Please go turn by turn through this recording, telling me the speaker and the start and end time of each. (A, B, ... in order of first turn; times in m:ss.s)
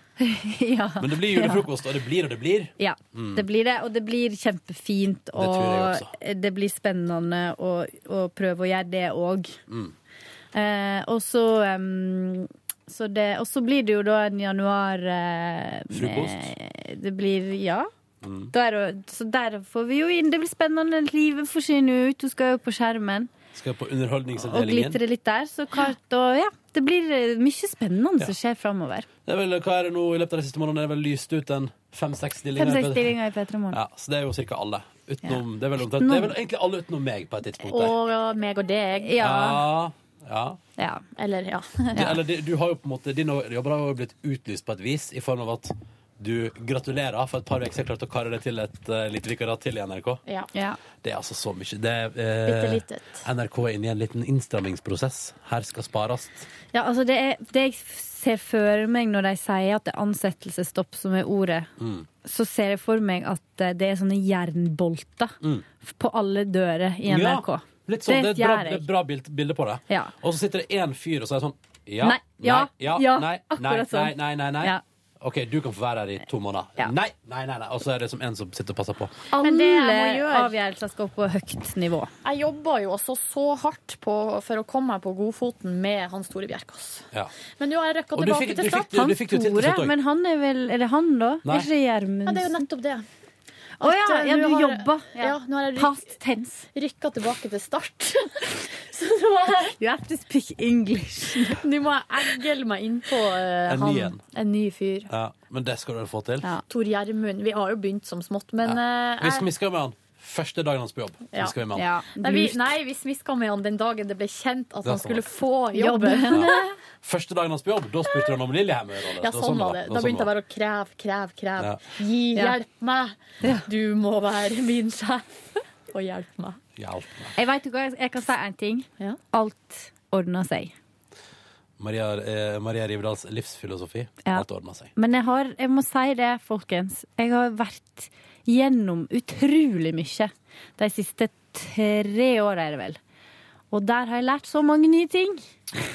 0:00.2-0:01.6 A
0:01.0-0:03.4 B
0:02.8-0:09.6 A
0:05.4-0:06.1 B
0:09.7-0:09.9 B
0:10.5-0:17.9 A
0:15.9-0:16.5 B
0:18.2-0:18.5 B
0:18.5-0:23.3 A
0:23.5-0:25.0 B
0:24.3-0:29.1 A
0:29.2-0:33.2 B
0:32.6-0:33.8 A
0:33.7-0:38.0 B
0:35.9-0:36.4 A
0:37.6-0:39.2 C
0:39.1-0:39.6 A
0:39.2-0:40.6 B
0:40.8-0:41.0 A
0:41.2-0:42.2 C
0:41.9-0:50.2 B
0:50.5-0:50.8 A
0:51.0-0:56.4 B
0:52.4-0:53.2 C
0:56.7-1:01.7 A
1:01.8-1:02.1 B
1:02.2-1:08.9 A
1:07.0-1:19.2 B
1:09.9-1:10.1 A
1:12.0-1:14.8 A
1:19.3-1:22.1 A
1:19.3-1:20.5 C
1:22.2-1:29.0 C
1:28.1-1:30.0 B
1:28.9-1:32.6 A
1:31.4-1:31.7 B
1:32.2-1:33.0 C
1:33.8-1:36.6 A
1:33.8-1:36.1 C
1:36.7-1:39.8 C
1:39.8-1:41.6 A
1:41.6-1:45.1 C
1:43.6-1:44.2 B
1:45.1-1:46.5 B
1:46.7-1:49.5 C
1:48.6-1:51.9 B
1:51.3-1:51.6 C
1:51.7-1:52.6 A
1:52.2-1:56.6 C
1:54.8-1:55.2 B
1:55.7-1:56.7 A
1:56.3-2:00.3 B
1:59.2-2:05.2 C
2:05.9-2:06.6 C
2:06.8-2:07.4 B
2:07.4-2:10.7 A
2:11.8-2:14.9 B
2:14.2-2:23.0 A
2:23.7-2:25.4 A